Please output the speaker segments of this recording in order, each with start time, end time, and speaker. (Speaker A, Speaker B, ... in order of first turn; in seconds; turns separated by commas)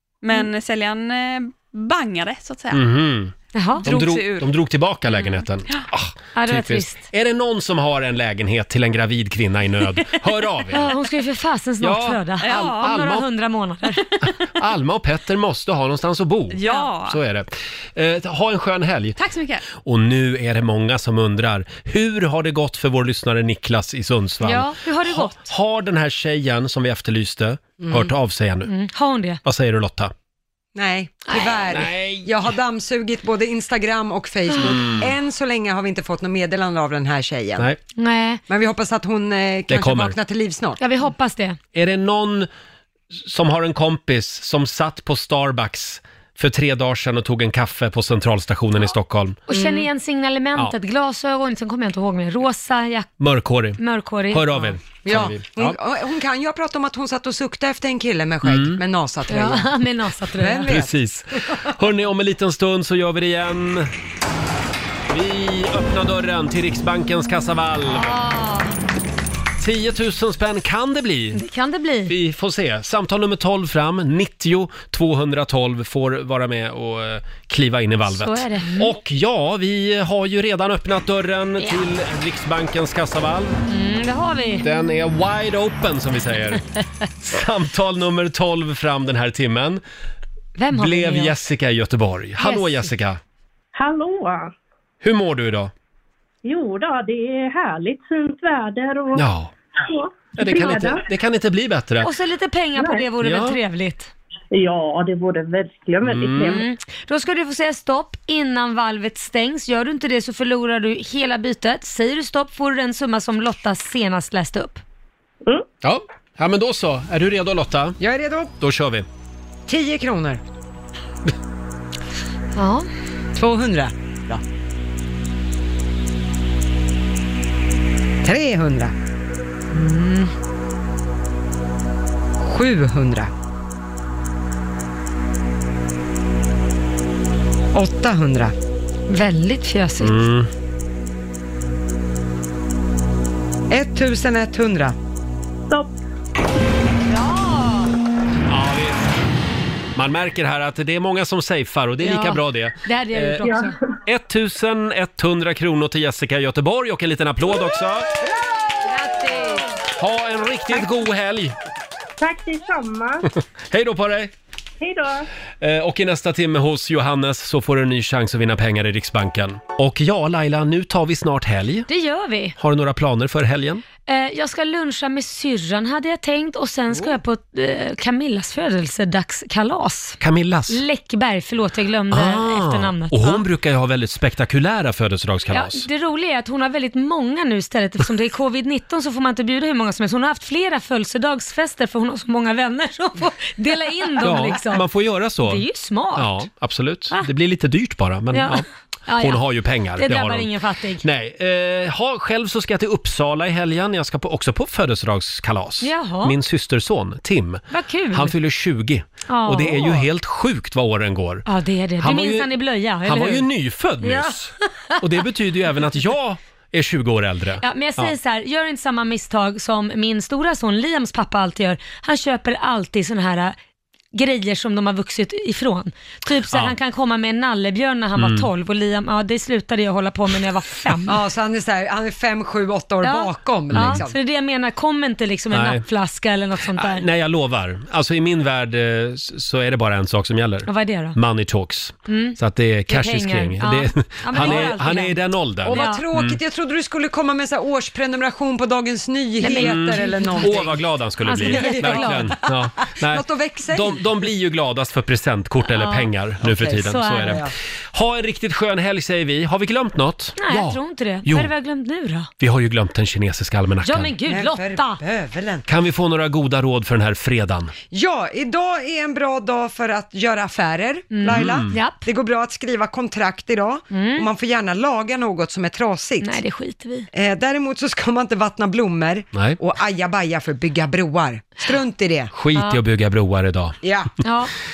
Speaker A: 0.2-2.9, Speaker B: 2.7-10.9, Speaker C: 3.5-3.9, Speaker A: 3.8-4.5, Speaker C: 6.4-7.0, Speaker C: 10.7-14.1, Speaker B: 11.8-13.3, Speaker A: 12.4-13.0, Speaker B: 14.6-19.2, Speaker A: 16.5-17.2, Speaker A: 19.2-19.6, Speaker B: 19.7-28.7, Speaker C: 24.4-25.4, Speaker D: 27.8-28.1, Speaker C: 28.7-29.4, Speaker B: 29.4-30.1, Speaker D: 30.7-37.7, Speaker B: 31.7-32.3, Speaker B: 34.6-35.1, Speaker C: 38.0-38.4, Speaker D: 38.5-40.8, Speaker B: 39.7-40.1, Speaker C: 40.8-41.6, Speaker B: 41.7-42.5, Speaker B: 43.1-49.4, Speaker C: 49.5-53.2, Speaker D: 49.5-49.9, Speaker B: 53.2-53.8, Speaker C: 53.8-54.8, Speaker B: 54.3-55.8, Speaker D: 55.0-59.7, Speaker B: 58.4-58.8, Speaker C: 59.3-60.8, Speaker D: 60.3-60.9, Speaker B: 60.7-63.9, Speaker B: 65.1-68.2, Speaker C: 67.9-68.7, Speaker B: 69.6-71.4, Speaker C: 71.3-72.1, Speaker B: 72.1-83.6, Speaker C: 78.1-78.9, Speaker C: 81.6-81.9, Speaker C: 83.7-84.7, Speaker B: 84.6-86.7, Speaker B: 87.2-89.8, Speaker C: 90.6-91.3, Speaker B: 90.7-93.2, Speaker C: 92.4-92.9, Speaker E: 93.7-94.5, Speaker B: 95.0-95.7, Speaker E: 96.4-99.3, Speaker B: 99.1-99.5, Speaker E: 99.8-101.0, Speaker B: 100.4-102.1, Speaker C: 102.0-104.1, Speaker B: 103.2-103.6, Speaker E: 104.5-106.7, Speaker B: 106.0-106.6, Speaker C: 106.4-114.8, Speaker B: 115.8-118.0, Speaker D: 118.0-118.5, Speaker B: 118.6-119.1, Speaker D: 119.7-120.4, Speaker C: 122.5-122.9, Speaker D: 123.3-124.4, Speaker D: 128.2-128.9, Speaker C: 129.7-130.3, Speaker D: 132.4-133.3, Speaker D: 137.7-138.5, Speaker C: 139.1-140.3, Speaker B: 140.0-140.5, Speaker D: 143.7-144.9, Speaker C: 147.1-147.9, Speaker B: 148.5-149.1, Speaker B: 149.9-158.1, Speaker C: 152.0-153.8, Speaker E: 153.4-153.7, Speaker C: 158.9-159.7, Speaker B: 160.0-161.6, Speaker E: 162.2-163.3, Speaker B: 163.4-164.3, Speaker E: 164.8-165.3, Speaker B: 165.6-171.9, Speaker C: 171.9-172.6, Speaker B: 172.6-173.8, Speaker C: 174.1-180.2, Speaker B: 180.2-180.8, Speaker C: 180.7-183.4, Speaker B: 182.1-185.8, Speaker C: 185.5-194.9, Speaker B: 194.2-195.6, Speaker C: 195.4-196.4, Speaker B: 196.2-198.7, Speaker C: 198.3-199.4, Speaker B: 199.2-200.5, Speaker C: 200.0-201.0, Speaker B: 201.0-211.4, Speaker C: 205.8-206.3, Speaker C: 207.7-208.4, Speaker C: 209.3-210.1, Speaker C: 211.5-213.5, Speaker B: 212.0-212.5, Speaker B: 213.1-218.2, Speaker C: 214.0-215.2, Speaker C: 217.6-223.6, Speaker C: 224.1-231.2, Speaker B: 228.2-228.5, Speaker D: 231.1-234.2, Speaker C: 233.0-237.1, Speaker B: 233.7-234.0, Speaker B: 235.5-235.8, Speaker B: 236.7-246.4, Speaker C: 240.7-241.2, Speaker C: 242.1-246.0, Speaker D: 244.4-244.8, Speaker D: 245.6-250.8, Speaker C: 249.4-250.7, Speaker B: 249.5-261.5, Speaker C: 251.3-252.3, Speaker D: 251.4-254.2, Speaker C: 255.7-256.1, Speaker D: 256.4-257.5, Speaker C: 256.7-257.4, Speaker C: 260.4-262.3, Speaker B: 262.4-264.1, Speaker C: 263.9-265.0, Speaker D: 264.2-265.6, Speaker B: 265.7-267.7, Speaker D: 267.9-276.4, Speaker C: 271.1-272.1, Speaker B: 271.3-271.8, Speaker C: 273.9-274.3, Speaker C: 276.2-277.1, Speaker D: 277.1-282.3, Speaker B: 279.3-279.6, Speaker B: 282.3-283.8, Speaker C: 282.6-282.8, Speaker D: 283.8-284.1, Speaker C: 284.2-284.5